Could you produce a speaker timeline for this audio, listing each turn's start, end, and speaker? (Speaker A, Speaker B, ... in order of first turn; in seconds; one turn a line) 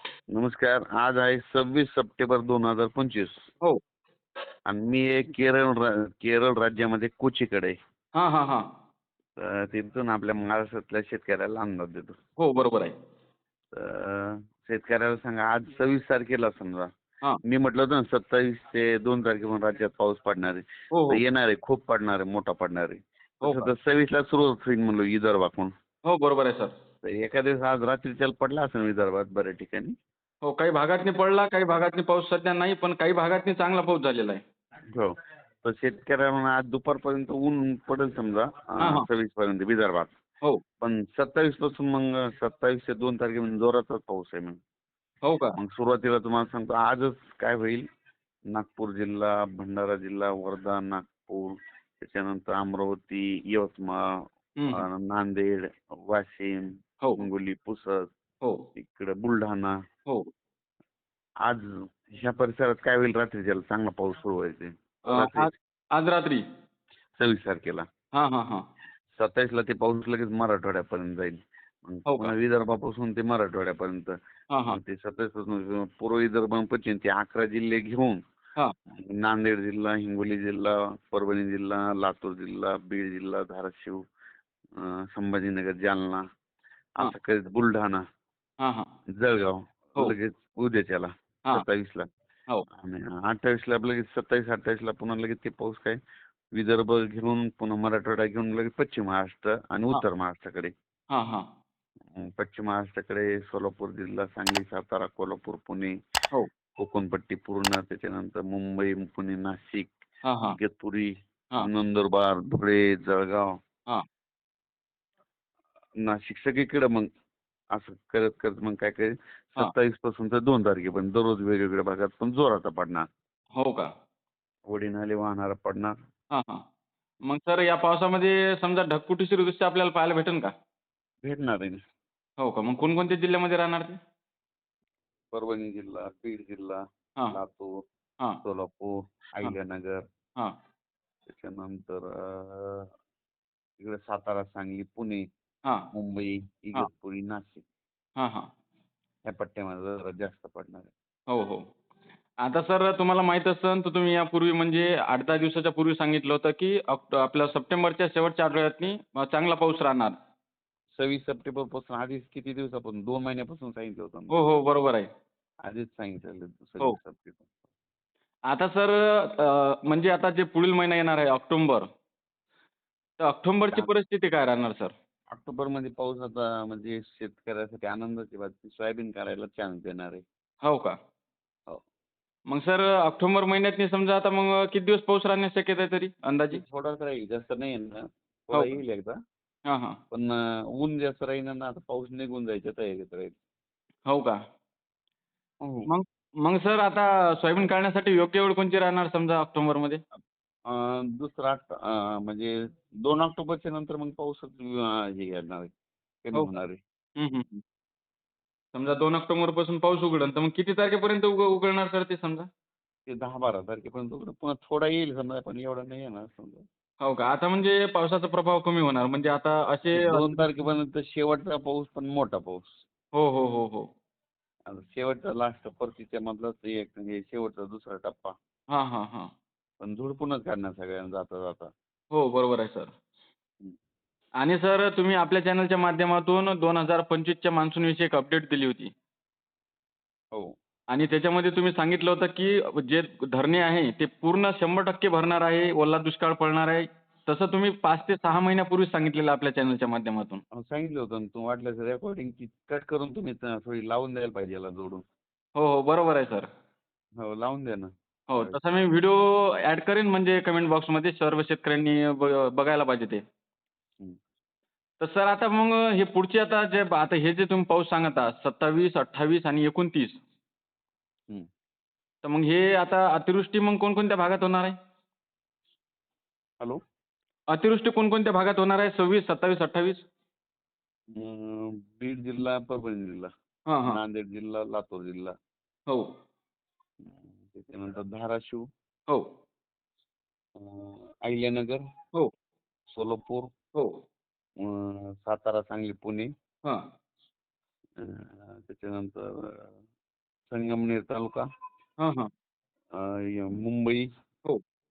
Speaker A: 0.3-3.4
Speaker A: 4.7-7.8
Speaker B: 8.1-8.6
Speaker A: 9.4-12.1
Speaker B: 12.4-12.9
Speaker A: 13.7-16.9
Speaker A: 17.4-25.7
Speaker B: 20.9-21.2
Speaker B: 23.4-23.7
Speaker B: 26.0-26.7
Speaker A: 27.0-29.9
Speaker B: 30.4-34.4
Speaker A: 34.9-40.1
Speaker B: 38.8-39.1
Speaker A: 40.8-44.6
Speaker B: 45.2-45.6
Speaker A: 45.5-47.9
Speaker A: 48.5-58.1
Speaker B: 54.6-54.9
Speaker A: 58.8-59.8
Speaker A: 61.5-65.5
Speaker B: 65.1-66.4
Speaker A: 67.2-67.8
Speaker B: 68.1-68.6
Speaker A: 69.1-74.1
Speaker B: 72.1-72.3
Speaker B: 74.5-74.8
Speaker A: 74.7-78.2
Speaker A: 79.0-84.0
Speaker A: 84.8-86.2
Speaker A: 87.0-88.0
Speaker B: 88.6-88.9
Speaker A: 89.1-92.0
Speaker A: 92.7-96.0
Speaker A: 96.5-100.7
Speaker B: 101.1-101.4
Speaker A: 102.1-105.9
Speaker A: 106.8-109.9
Speaker B: 110.2-110.6
Speaker A: 110.6-113.5
Speaker A: 116.0-117.1
Speaker A: 117.7-123.0
Speaker B: 123.5-123.9
Speaker A: 124.7-125.9
Speaker B: 126.3-126.6
Speaker B: 127.2-130.5
Speaker A: 131.2-131.8
Speaker B: 132.4-134.0
Speaker A: 135.3-137.7
Speaker A: 138.4-140.0
Speaker A: 141.3-142.9
Speaker A: 143.8-145.2
Speaker A: 145.9-147.6
Speaker B: 148.2-148.5
Speaker A: 149.2-150.9
Speaker B: 151.3-151.6
Speaker B: 152.4-160.2
Speaker A: 160.9-164.5
Speaker B: 164.3-165.1
Speaker A: 165.6-167.5
Speaker B: 168.5-171.9
Speaker B: 173.2-174.9
Speaker A: 175.3-180.2
Speaker B: 180.6-180.9
Speaker B: 182.5-186.6
Speaker A: 186.5-189.2
Speaker B: 188.5-188.8
Speaker B: 189.7-190.0
Speaker A: 190.1-193.3
Speaker B: 194.1-194.4
Speaker A: 195.6-195.9
Speaker B: 195.9-200.0
Speaker A: 200.7-205.7
Speaker A: 206.2-206.8
Speaker B: 207.2-207.6
Speaker B: 208.7-212.5
Speaker A: 213.1-216.6
Speaker B: 217.0-220.5
Speaker A: 219.9-222.8
Speaker B: 223.1-223.9
Speaker A: 224.7-228.3
Speaker B: 228.7-229.3
Speaker A: 229.8-231.7
Speaker B: 232.1-232.9
Speaker B: 234.4-238.9
Speaker B: 240.9-250.4
Speaker A: 250.5-255.0
Speaker B: 255.6-256.5
Speaker A: 257.2-258.6
Speaker B: 258.3-263.2
Speaker B: 265.0-270.2
Speaker B: 272.2-274.8
Speaker B: 277.5-280.0
Speaker A: 281.1-283.3
Speaker B: 283.7-284.0
Speaker A: 283.8-285.3
Speaker A: 287.0-288.6
Speaker A: 290.6-291.8
Speaker A: 292.9-293.5
Speaker B: 293.7-294.0
Speaker A: 294.6-296.3
Speaker A: 298.0-299.8
Speaker A: 300.5-301.4
Speaker B: 302.0-302.3
Speaker A: 302.9-304.1